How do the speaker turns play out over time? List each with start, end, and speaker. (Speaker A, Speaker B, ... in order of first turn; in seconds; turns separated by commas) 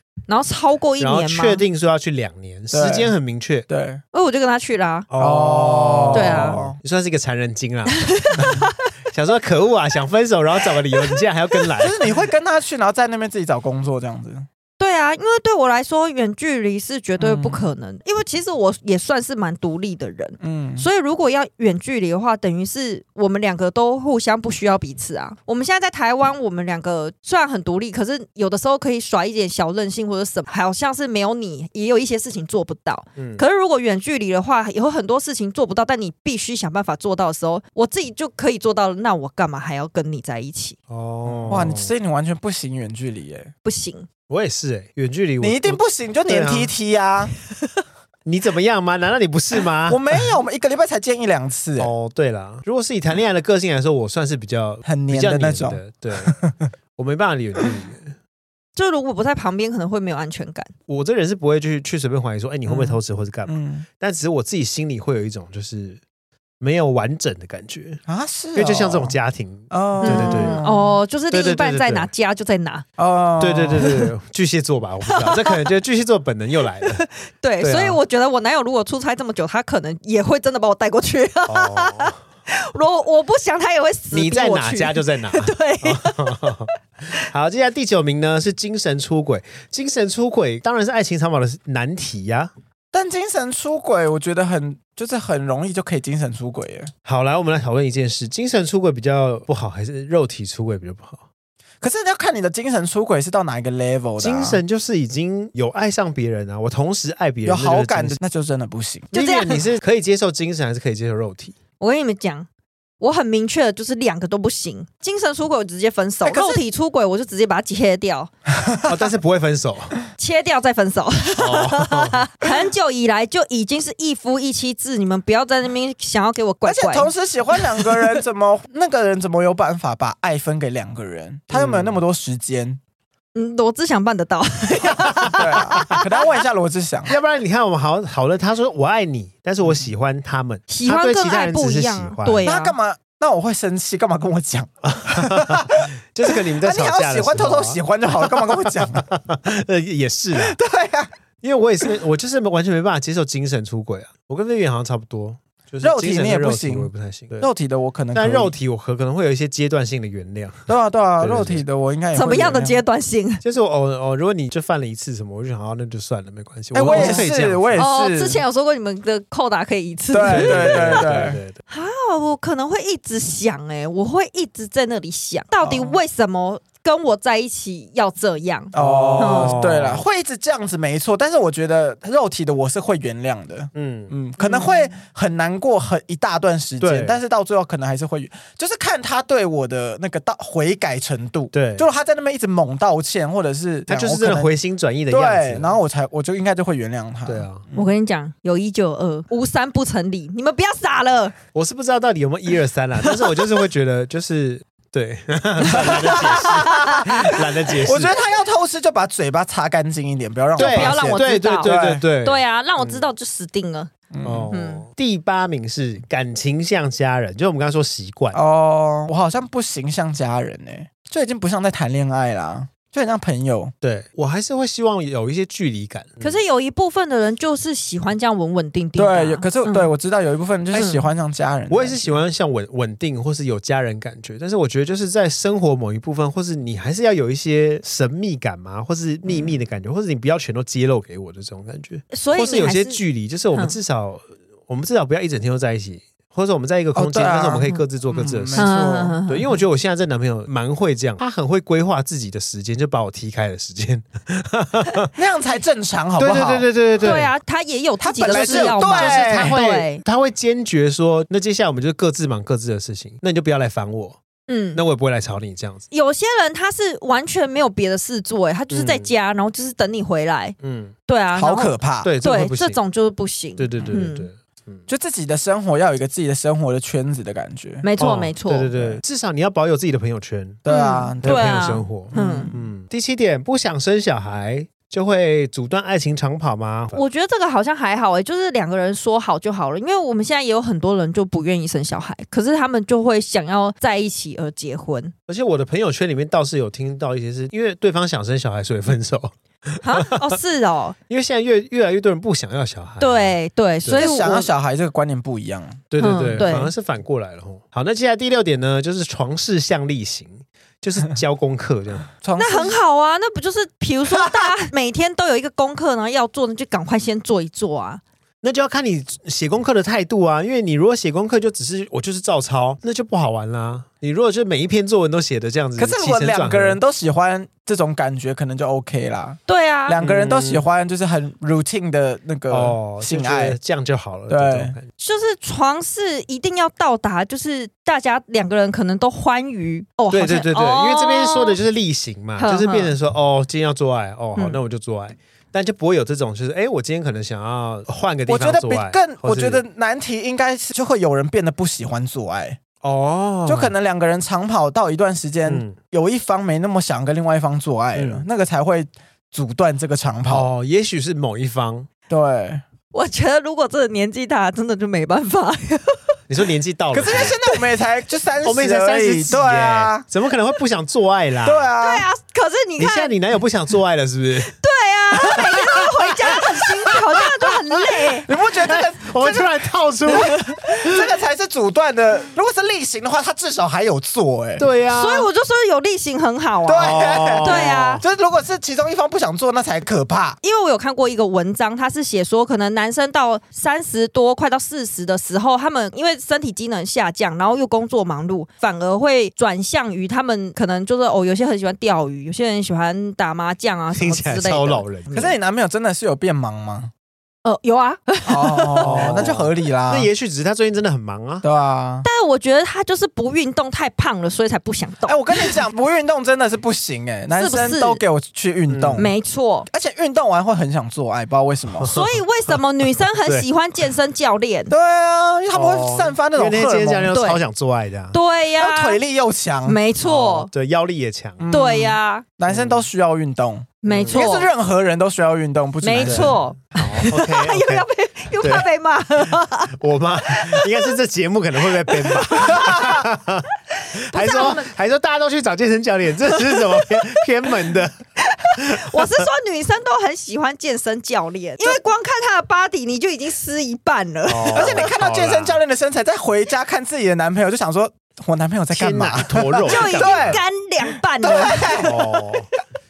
Speaker A: 0.3-1.6, Speaker B: 1.0-3.7, Speaker C: 2.7-3.1, Speaker C: 3.7-4.0, Speaker A: 4.1-5.1, Speaker B: 5.1-8.6, Speaker C: 5.2-6.8, Speaker A: 6.1-6.6, Speaker A: 8.0-8.8, Speaker C: 8.4-8.6, Speaker B: 9.1-12.0, Speaker C: 11.8-14.5, Speaker A: 14.8-40.8, Speaker C: 17.2-17.6, Speaker C: 20.4-20.9, Speaker B: 33.2-33.4, Speaker B: 40.9-41.9, Speaker C: 41.3-43.5, Speaker A: 43.6-44.1, Speaker B: 44.3-46.7, Speaker C: 45.4-47.3, Speaker B: 48.3-50.0, Speaker C: 49.9-51.9, Speaker B: 51.8-56.4, Speaker C: 54.9-56.6, Speaker B: 57.0-58.2, Speaker A: 58.8-60.7, Speaker B: 60.9-66.0, Speaker C: 62.7-63.9, Speaker B: 66.6-68.0, Speaker C: 68.1-69.2, Speaker B: 68.5-70.6, Speaker C: 69.7-71.0, Speaker A: 70.0-72.8, Speaker B: 71.3-72.1, Speaker C: 73.0-73.9, Speaker B: 73.4-77.0, Speaker A: 75.1-75.6, Speaker A: 76.8-86.7, Speaker B: 77.6-78.0, Speaker B: 81.5-82.2, Speaker B: 84.1-92.5, Speaker C: 92.9-96.9, Speaker B: 97.0-101.2, Speaker C: 101.8-104.6, Speaker B: 104.2-108.2, Speaker C: 107.4-109.1, Speaker A: 109.1-109.6, Speaker B: 109.1-111.6, Speaker A: 111.8-112.5, Speaker A: 113.0-118.3, Speaker C: 116.2-116.6, Speaker C: 118.6-119.1, Speaker B: 118.9-120.0, Speaker A: 120.2-127.1, Speaker B: 121.3-122.2, Speaker C: 126.7-132.8, Speaker B: 131.5-132.0, Speaker A: 133.3-136.1, Speaker C: 135.3-137.1, Speaker B: 137.1-142.5, Speaker A: 140.7-142.8, Speaker C: 142.4-149.1, Speaker B: 144.8-150.6, Speaker C: 150.3-151.1, Speaker B: 151.4-157.5, Speaker C: 155.8-158.6, Speaker B: 158.1-161.6, Speaker C: 160.7-162.8, Speaker A: 162.1-163.4, Speaker B: 163.4-167.8, Speaker C: 166.7-168.4, Speaker A: 166.8-167.2, Speaker A: 167.8-171.1, Speaker C: 170.1-171.4, Speaker B: 170.3-171.6, Speaker A: 171.7-179.6, Speaker C: 175.6-176.0, Speaker C: 178.7-194.5, Speaker B: 178.7-180.0, Speaker B: 183.8-184.1, Speaker A: 184.4-184.9, Speaker B: 186.8-187.2, Speaker B: 191.5-191.9, Speaker B: 193.9-195.7, Speaker C: 195.1-197.9, Speaker B: 197.3-197.6, Speaker A: 197.8-201.3, Speaker B: 201.5-208.1, Speaker A: 203.1-203.5, Speaker C: 205.7-207.1, Speaker A: 205.8-207.3, Speaker C: 207.8-212.1, Speaker A: 210.6-213.9, Speaker B: 210.6-213.1, Speaker C: 214.1-214.5, Speaker B: 214.2-218.4, Speaker A: 214.5-214.9, Speaker C: 218.3-223.7, Speaker B: 223.8-226.4, Speaker A: 226.2-229.9, Speaker C: 229.0-232.1, Speaker A: 230.7-231.1, Speaker B: 231.7-248.7, Speaker A: 242.1-243.0, Speaker C: 246.9-249.2, Speaker A: 248.6-249.5, Speaker B: 249.3-255.1, Speaker C: 255.2-256.7, Speaker B: 256.2-257.3, Speaker A: 257.0-260.0, Speaker C: 258.0-259.6, Speaker B: 258.3-264.2, Speaker A: 264.5-264.8, Speaker B: 264.7-265.9, Speaker A: 265.9-270.6, Speaker B: 268.7-269.1, Speaker B: 270.6-270.9, Speaker A: 271.1-274.3, Speaker C: 271.4-272.1, Speaker B: 272.0-272.8, Speaker B: 273.6-274.8, Speaker C: 274.9-277.9, Speaker A: 277.8-278.9, Speaker B: 278.0-280.6, Speaker C: 280.6-282.5, Speaker A: 280.7-282.6, Speaker B: 281.2-287.0, Speaker A: 286.9-295.1, Speaker B: 295.3-300.1, Speaker A: 299.8-301.0, Speaker B: 301.1-304.0, Speaker A: 303.0-304.5, Speaker C: 303.9-305.9, Speaker B: 305.9-312.1, Speaker A: 306.0-306.7, Speaker C: 306.4-306.6, Speaker C: 312.2-312.8, Speaker A: 312.4-318.0, Speaker C: 314.1-314.5, Speaker B: 318.4-326.8, Speaker C: 325.8-333.6, Speaker A: 329.5-330.0, Speaker B: 330.0-330.6, Speaker B: 332.5-334.9, Speaker C: 334.3-334.8, Speaker A: 335.0-341.6, Speaker B: 340.1-349.6, Speaker A: 342.4-342.9, Speaker C: 348.3-352.6, Speaker B: 352.8-353.7, Speaker C: 353.5-360.5, Speaker B: 355.5-355.8, Speaker B: 357.9-358.3, Speaker B: 360.3-361.9, Speaker C: 362.1-362.6, Speaker A: 362.9-366.1, Speaker B: 366.3-367.4, Speaker C: 366.9-370.1, Speaker B: 368.4-371.7, Speaker C: 371.4-372.1, Speaker A: 371.8-373.1, Speaker B: 372.8-374.6, Speaker A: 374.6-378.3, Speaker B: 375.4-375.8, Speaker C: 378.2-384.7, Speaker B: 378.6-381.1, Speaker A: 380.1-380.6, Speaker B: 384.6-385.3, Speaker A: 384.9-388.0, Speaker C: 386.6-390.4, Speaker B: 386.8-388.0, Speaker A: 390.4-405.4, Speaker B: 403.9-405.2, Speaker C: 405.1-406.9, Speaker A: 407.4-409.2, Speaker C: 408.3-410.1, Speaker B: 408.8-411.4, Speaker C: 411.4-412.1, Speaker A: 412.1-415.6, Speaker C: 415.1-419.1, Speaker A: 417.3-418.0, Speaker B: 418.7-419.1, Speaker A: 419.0-419.7, Speaker C: 419.7-421.9, Speaker B: 421.8-422.2, Speaker A: 421.9-424.7, Speaker C: 424.7-427.1, Speaker B: 425.5-428.2, Speaker A: 427.1-427.4, Speaker A: 428.1-429.0, Speaker C: 428.6-429.8, Speaker A: 429.7-430.5, Speaker B: 430.0-431.5, Speaker C: 431.4-436.4, Speaker A: 431.5-432.3, Speaker B: 432.5-432.9, Speaker A: 433.8-434.5, Speaker B: 433.9-434.3, Speaker A: 435.8-439.7, Speaker B: 436.0-437.9, Speaker B: 438.4-438.7, Speaker B: 439.7-443.5, Speaker A: 440.3-440.9, Speaker A: 441.9-443.1, Speaker A: 443.8-444.7, Speaker B: 444.1-449.2, Speaker A: 446.3-447.2, Speaker A: 448.2-454.9, Speaker B: 454.3-455.6, Speaker C: 454.6-460.4, Speaker B: 458.7-460.4, Speaker A: 459.6-461.9, Speaker C: 461.2-462.1, Speaker B: 461.8-462.5